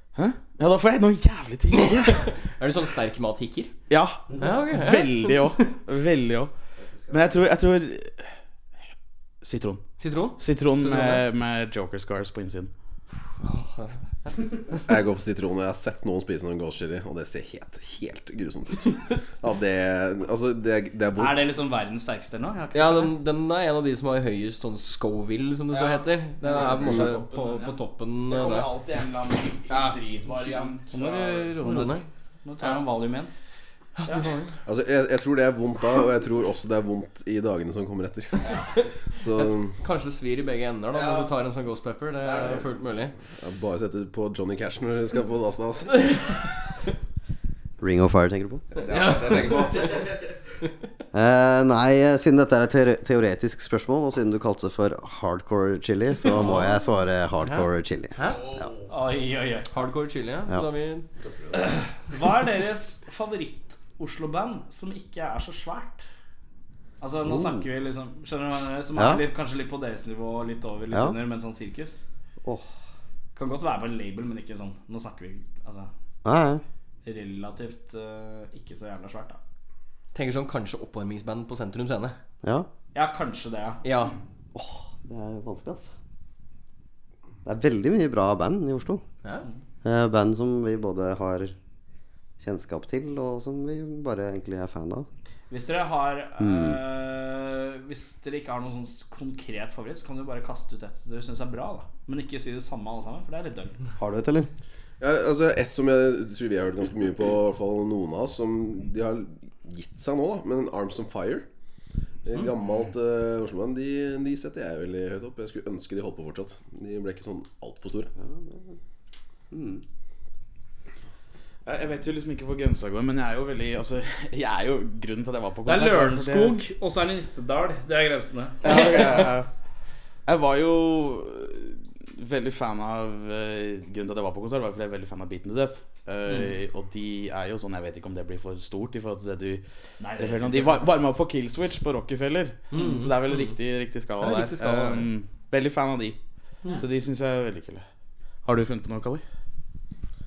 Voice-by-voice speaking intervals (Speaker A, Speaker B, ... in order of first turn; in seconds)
Speaker A: 0.1-2.3, 3.9-6.5, 7.1-8.3, 9.4-12.7, 25.7-31.4, 38.4-38.7, 40.9-41.3, 42.2-42.7, 58.2-58.9, 121.6-126.6, 128.6-129.5, 130.2-139.6, 140.2-147.8, 148.4-149.2
Speaker B: 1.7-3.8, 4.4-5.6, 10.0-11.2, 13.4-14.3, 22.7-28.7, 31.6-32.0, 34.0-34.5, 39.4-43.1, 48.9-49.5, 56.4-56.7, 57.4-58.4, 59.7-61.1, 80.1-82.2, 83.8-84.1, 142.7-143.4, 144.2-145.1
Speaker C: 4.3-4.6, 6.8-7.4, 47.8-48.6, 51.1-58.7, 61.2-61.5, 67.2-67.6, 69.0-69.2, 70.9-71.2, 76.2-76.6, 82.4-82.7, 84.5-85.9, 87.4-89.0, 89.8-91.5, 92.4-95.1, 96.4-96.8, 104.0-104.5, 118.2-118.8, 119.5-119.8
Speaker D: 14.8-21.4, 34.6-38.6, 39.1-39.8, 43.4-46.2, 48.7-50.0, 105.0-111.4, 112.2-118.1
Speaker E: 21.2-23.1, 29.7-33.3, 58.9-59.7, 61.5-66.0, 67.0-72.0, 73.3-75.9, 77.0-79.4, 82.9-83.8, 95.5-103.8, 125.7-129.3, 140.0-140.9